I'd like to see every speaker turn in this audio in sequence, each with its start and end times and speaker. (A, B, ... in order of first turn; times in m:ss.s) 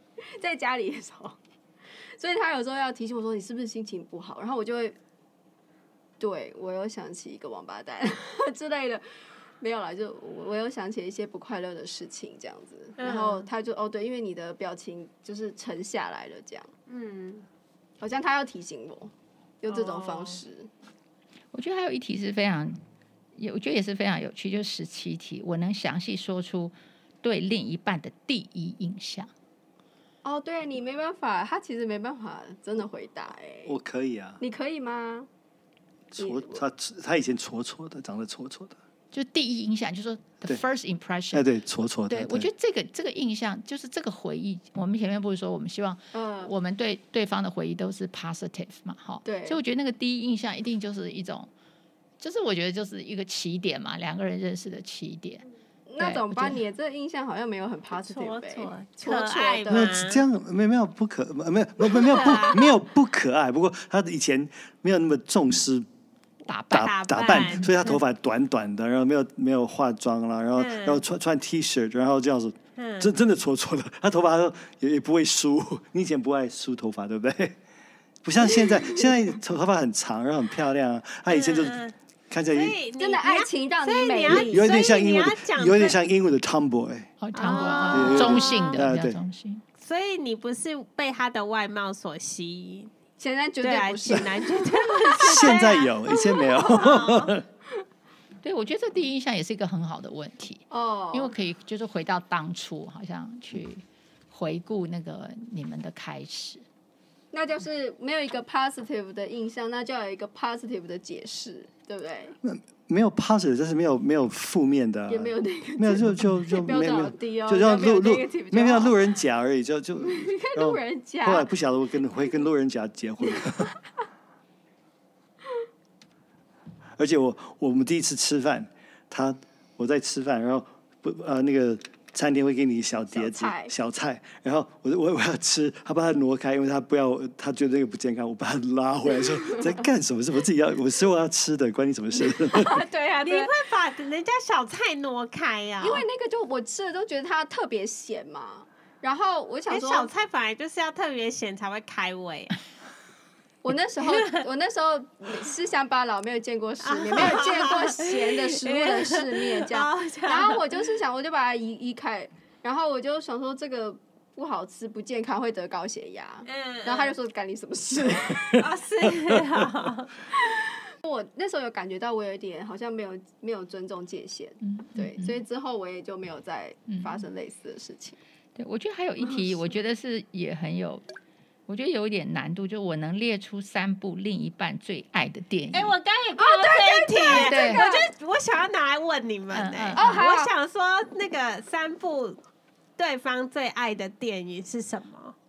0:00.2-0:01.4 A
0:02.2-0:05.0 A
0:06.2-0:09.0 A
0:09.6-0:16.7 A
0:13.0-0:13.5 B
0:16.9-0:17.5 B
0:18.0-0:20.7 A
0:19.7-0:20.4 B
0:21.5-0:22.8 C
0:23.4-0:29.3 C
0:30.2-0:33.8 A
0:33.6-0:34.4 D
0:34.4-0:35.3 A
0:36.1-0:38.8 D
0:36.2-0:36.6 A
0:39.1-0:41.4 C
0:41.3-0:42.5 D
0:42.1-0:51.5 C
0:46.1-0:46.5 A
0:49.2-0:49.6 A
0:52.2-0:55.4 C
0:55.9-0:59.9 A
0:56.0-0:56.6 C
0:58.0-1:00.2 B
0:59.7-1:05.8 D
1:01.9-1:02.8 B
1:06.5-1:07.7 C
1:06.7-1:17.6 D
1:06.7-1:08.0 B
1:10.6-1:11.0 B
1:12.8-1:13.1 B
1:18.2-1:22.8 D
1:18.7-1:19.1 A
1:21.3-1:22.0 B
1:22.5-1:26.0 B
1:23.0-1:24.7 A
1:24.3-1:27.1 D
1:27.2-1:29.6 C
1:27.4-1:28.8 B
1:27.4-1:28.5 A
1:27.9-1:29.2 D
1:29.8-1:32.9 B
1:33.2-1:36.6 A
1:33.6-1:37.3 B
1:35.2-1:37.4 D
1:38.4-1:46.6 C
1:40.7-1:41.4 A
1:47.3-1:52.4 A
1:52.4-2:03.7 D
1:55.1-1:59.0 A
2:00.0-2:01.5 A
2:03.3-2:03.7 A
2:07.0-2:22.9 D
2:13.1-2:13.7 A
2:19.3-2:19.8 A
2:22.2-2:23.5 A
2:23.2-2:26.0 B
2:25.8-2:30.1 A
2:29.7-2:32.6 B
2:33.6-2:48.8 A
2:34.0-2:34.4 B
2:36.8-2:40.9 B
2:46.4-2:47.2 B
2:48.6-2:50.1 B
2:50.3-2:58.2 A
2:54.6-2:55.4 C
2:56.9-2:57.2 C
2:58.6-3:01.0 C
2:59.2-2:59.6 A
3:01.7-3:06.0 C
3:05.7-3:12.4 B
3:06.4-3:08.1 A
3:07.3-3:07.8 C
3:09.5-3:10.2 C
3:10.0-3:10.5 A
3:13.0-3:15.4 B